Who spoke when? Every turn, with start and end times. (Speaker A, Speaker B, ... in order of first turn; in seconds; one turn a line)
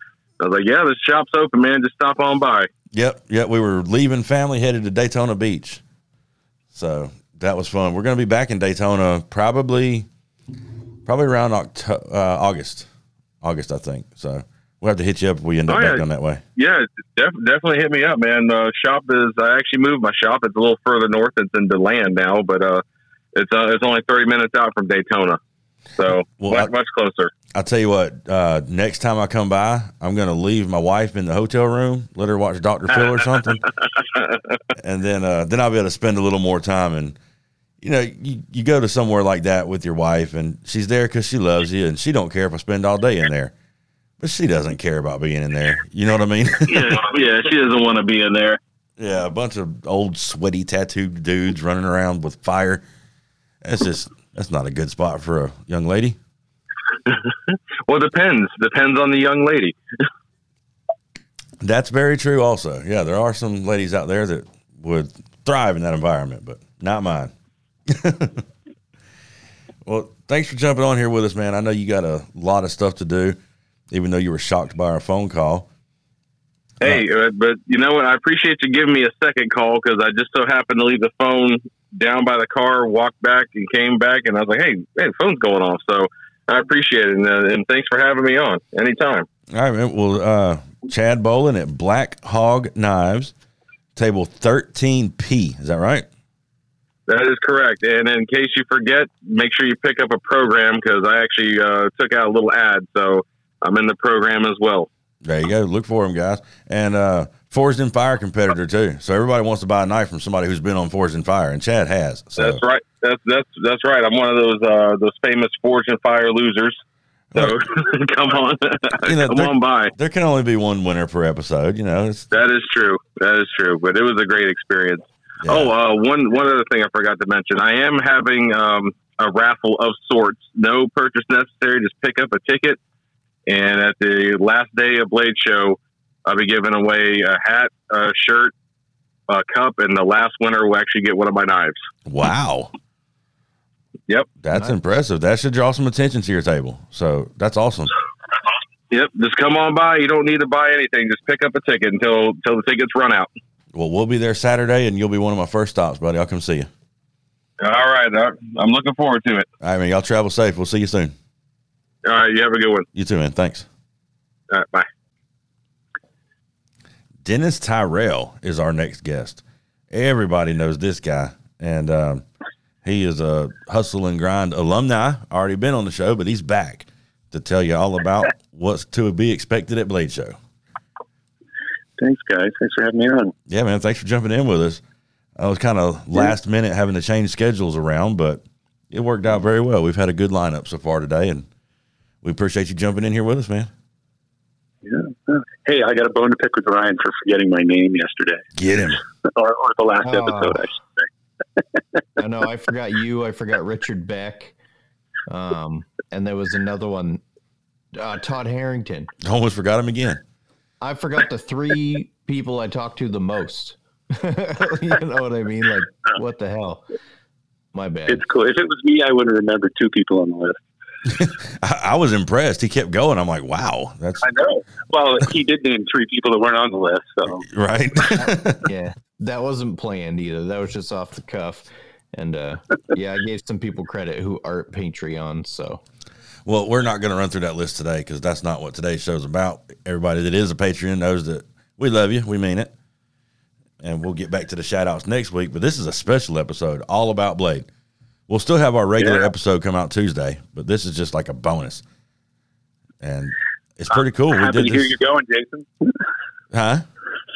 Speaker A: 0.4-2.7
Speaker B: 2.9-5.8
Speaker B: 6.7-10.1
Speaker B: 11.1-12.9
Speaker B: 13.4-16.4
Speaker A: 15.7-16.0
Speaker A: 16.6-22.8
Speaker A: 23.3-25.4
Speaker A: 26.0-27.3
Speaker B: 26.2-26.7
Speaker B: 27.5-33.6
Speaker A: 33.0-33.5
Speaker B: 34.8-37.1
Speaker B: 37.8-43.5
Speaker B: 44.2-47.0
Speaker A: 46.7-48.6
Speaker B: 49.0-52.8
Speaker B: 53.6-56.2
Speaker A: 57.9-59.8
Speaker B: 61.6-67.3
Speaker B: 67.9-68.4
Speaker B: 69.8-73.4
Speaker B: 73.9-75.7
Speaker A: 76.8-89.2
Speaker B: 89.5-93.3
Speaker B: 94.0-96.0
Speaker A: 97.1-104.9
Speaker B: 105.2-112.6
Speaker A: 112.3-116.8
Speaker A: 117.3-119.9
Speaker B: 119.0-122.3
Speaker A: 122.3-132.8
Speaker B: 125.4-125.7
Speaker A: 133.5-138.5
Speaker A: 139.3-141.8
Speaker B: 142.1-142.7
Speaker B: 144.4-147.9
Speaker A: 148.9-153.3
Speaker B: 153.7-156.7
Speaker A: 157.6-159.5
Speaker B: 159.6-161.1
Speaker A: 162.0-162.9
Speaker B: 162.9-163.7
Speaker A: 164.5-164.8
Speaker B: 167.2-172.2
Speaker B: 172.8-180.4
Speaker C: 182.0-183.3
Speaker B: 183.5-184.8
Speaker B: 185.4-191.4
Speaker B: 192.2-193.7
Speaker C: 194.8-198.4
Speaker B: 198.6-199.0
Speaker C: 199.2-201.0
Speaker D: 200.0-200.6
Speaker D: 202.2-204.5
Speaker D: 205.3-207.2
Speaker D: 207.9-209.1
Speaker B: 209.2-210.2
Speaker D: 210.8-216.8
Speaker D: 217.7-218.2
Speaker C: 218.1-220.6
Speaker B: 221.1-224.2
Speaker C: 224.2-227.4
Speaker B: 227.5-228.7
Speaker D: 228.6-235.8
Speaker B: 236.4-242.7
Speaker B: 243.8-247.7
Speaker B: 248.3-251.8
Speaker C: 249.0-249.3
Speaker B: 253.0-254.9
Speaker C: 254.3-255.9
Speaker B: 256.5-256.8